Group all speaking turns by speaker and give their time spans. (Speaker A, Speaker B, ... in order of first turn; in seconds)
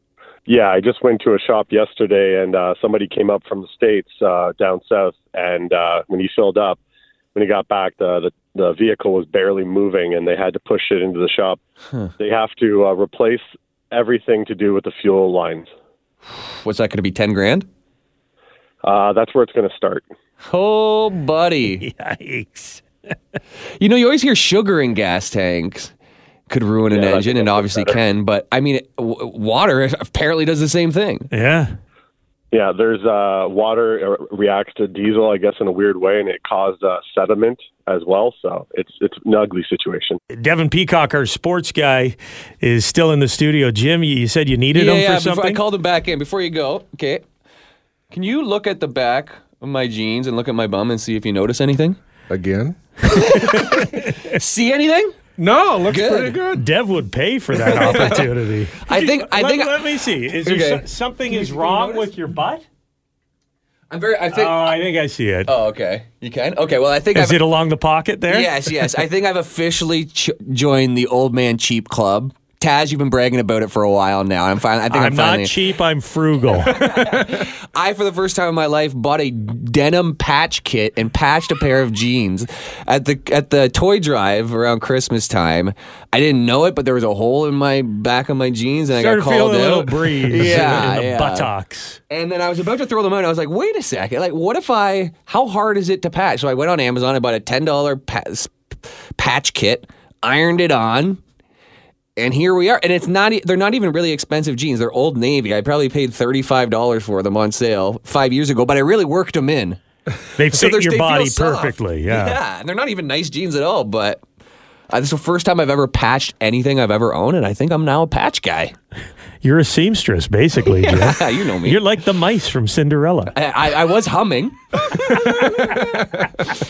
Speaker A: 0.5-6.8, 7.3-11.6, 12.2-15.7, 18.8-20.1, 26.9-28.0, 32.5-40.2
Speaker B: 16.6-17.7, 20.4-21.9, 23.8-25.9, 26.5-31.3, 44.7-47.2, 48.1-52.0, 53.1-55.2, 55.9-56.4, 57.6-58.3, 58.9-62.1, 63.9-64.8, 65.5-67.4, 68.3-75.6, 76.6-91.5, 92.1-98.5, 99.2-101.2, 102.2-109.8, 110.4-114.2, 114.9-118.7, 120.7-121.8, 123.3-126.5
Speaker C: 21.8-22.8, 31.3-31.8, 40.3-45.6, 56.5-62.6, 64.3-65.5, 67.1-69.0, 74.9-77.3, 88.9-92.0, 110.4-112.4, 119.4-123.3, 125.0-125.9
Speaker D: 52.3-53.1, 55.4-56.7